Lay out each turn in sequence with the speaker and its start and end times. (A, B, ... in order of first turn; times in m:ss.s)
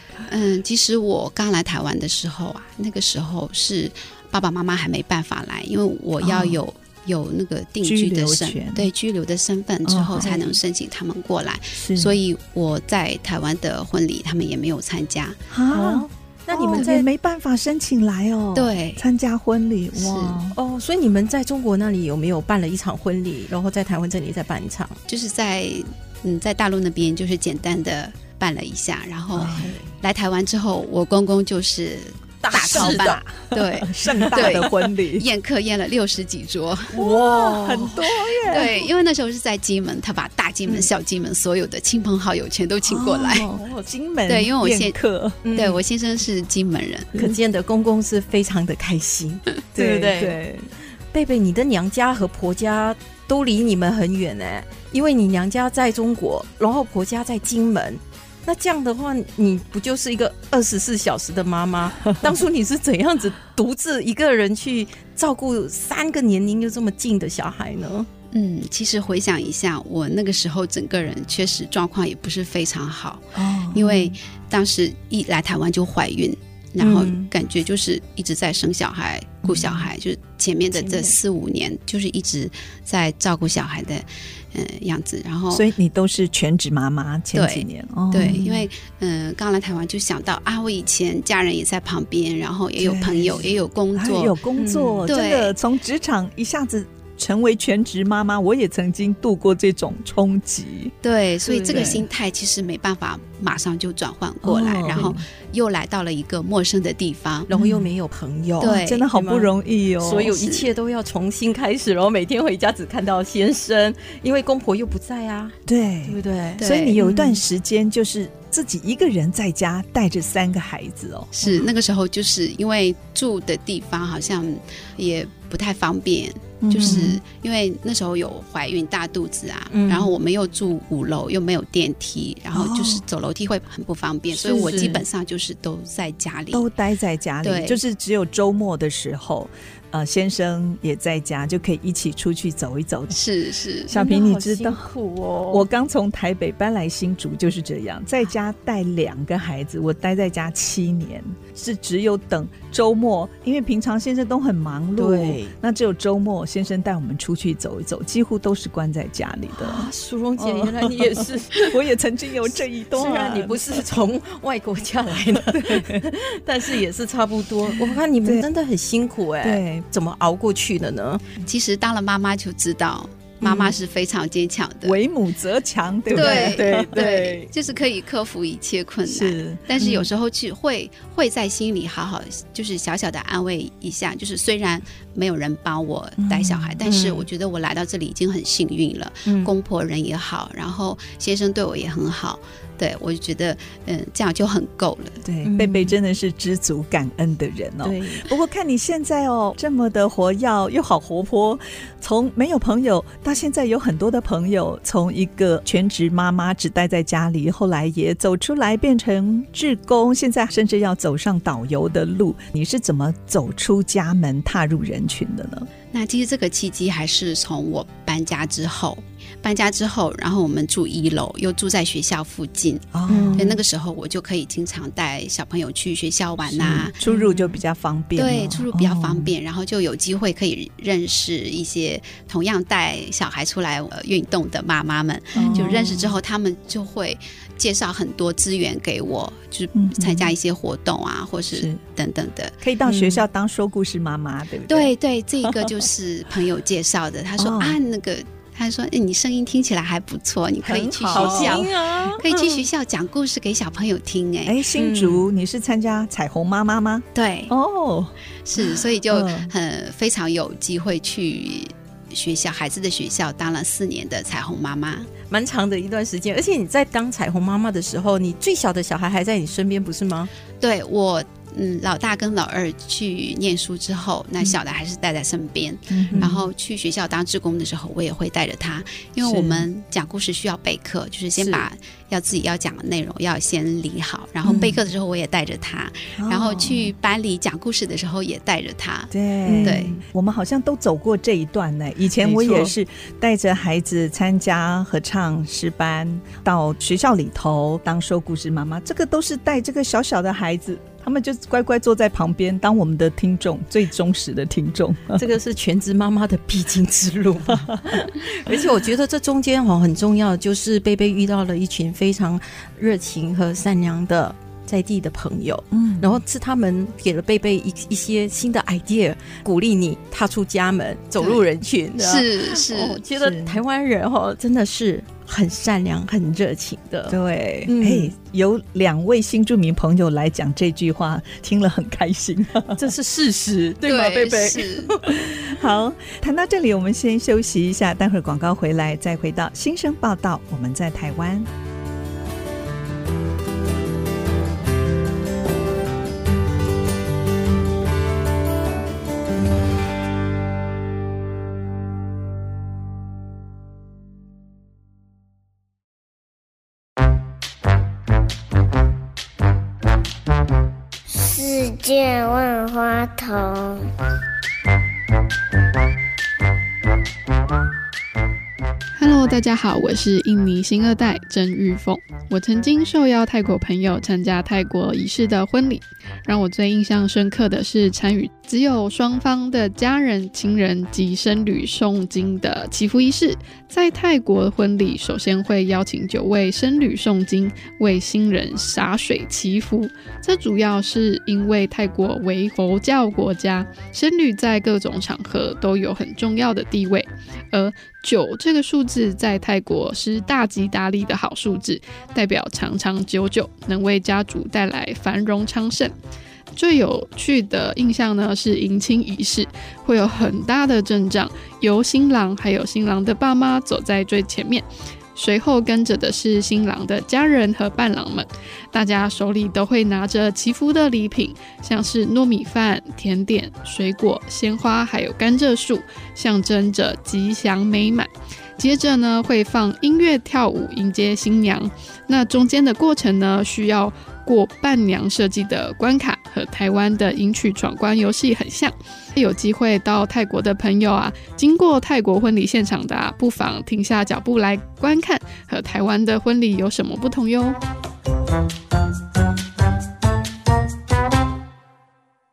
0:00.3-0:15.4 A
0:06.2-0:06.6 B
0:07.8-0:08.9 B
0:09.8-0:10.3 B
0:10.2-0:10.6 C
0:11.8-0:12.2 B
0:15.5-0:20.6 B
0:15.7-0:17.1 C
0:18.6-0:19.0 A
0:20.0-0:20.4 A
0:20.6-0:25.0 C
0:25.1-0:36.9 A
0:29.4-0:29.7 B
0:29.5-0:29.9 C
0:32.4-0:33.2 C
0:32.5-0:35.3 B
0:34.1-0:34.6 C
0:36.9-0:38.6 C
0:36.9-0:38.8 B
0:38.5-0:43.5 A
0:42.8-0:45.4 B
0:43.4-0:43.9 C
0:44.3-0:45.0 A
0:45.4-0:45.8 C
0:45.6-0:47.1 A
0:47.2-0:50.4 C
0:49.8-0:50.7 B
0:51.1-1:08.1 C
1:08.3-1:25.7 A
1:13.4-1:14.1 B
1:16.8-1:17.3 C
1:19.4-1:19.9 B
1:20.8-1:21.1 B
1:25.5-1:28.7 B
1:27.3-1:34.4 A
1:28.2-1:28.5 C
1:32.8-1:40.9 B
1:34.6-1:35.1 C
1:35.1-1:35.6 A
1:41.0-1:47.5 A
1:41.5-1:42.0 C
1:41.7-1:42.0 B
1:44.4-1:45.2 B
1:47.5-1:57.4 C
1:47.6-1:47.9 B
1:48.6-1:49.1 A
1:48.6-1:50.4 B
1:50.3-1:50.7 A
1:55.7-2:01.6 B
1:56.6-1:57.0 A
2:01.4-2:16.6 A
2:06.6-2:07.2 B
2:06.8-2:07.1 C
2:09.7-2:10.1 C
2:12.5-2:13.0 B
2:14.4-2:15.0 C
2:14.6-2:14.8 B
2:16.5-2:23.2 B
2:17.4-2:17.8 A
2:23.1-2:23.9 A
2:23.9-2:24.9 B
2:23.9-2:25.6 C
2:25.5-2:43.8 B
2:35.0-2:35.5 C
2:39.5-2:41.8 C
2:42.9-2:51.2 C
2:45.3-2:46.1 B
2:47.7-2:48.5 B
2:49.4-2:49.9 B
2:51.5-2:55.0 A
2:53.4-2:53.8 C
2:54.8-2:57.1 B
2:56.1-2:57.5 C
2:56.2-3:15.2 A
2:59.1-2:59.7 B
2:59.8-3:00.1 C
3:06.2-3:06.8 B
3:06.8-3:07.3 C
3:09.3-3:09.5 C
3:15.2-3:35.7 B
3:15.4-3:15.9 C
3:17.8-3:18.3 C
3:35.9-3:47.0 A
3:42.9-3:43.6 B
3:43.1-3:43.5 C
3:46.5-3:49.3 B
3:47.0-3:47.5 C
3:48.2-4:02.6 A
3:55.4-3:56.0 B
3:55.4-3:56.1 C
3:59.8-4:00.3 B
4:01.5-4:01.8 B
4:02.6-4:04.9 B
4:02.9-4:03.2 C
4:04.7-4:14.6 A
4:05.4-4:05.7 B
4:07.4-4:07.8 B
4:10.6-4:11.7 B
4:11.1-4:12.6 C
4:14.4-4:19.5 B
4:14.8-4:15.2 C
4:17.2-4:17.5 A
4:18.5-4:25.1 A
4:25.3-4:30.3 C
4:30.6-4:50.0 A
4:35.9-4:36.5 B
4:39.2-4:39.7 B
4:41.4-4:41.6 C
4:44.4-4:44.8 B
4:46.2-4:46.9 B
4:49.1-5:05.2 B
4:49.5-4:50.0 C
4:52.2-4:52.7 C
5:05.2-5:28.1 C
5:15.7-5:16.2 B
5:22.0-5:23.0 A
5:23.1-5:23.6 B
5:27.1-5:32.9 B
5:32.8-5:35.2 C
5:33.8-5:34.9 A
5:35.1-5:41.5 B
6:01.1-6:03.9 D
6:09.0-6:46.0 E
6:46.6-7:27.6 E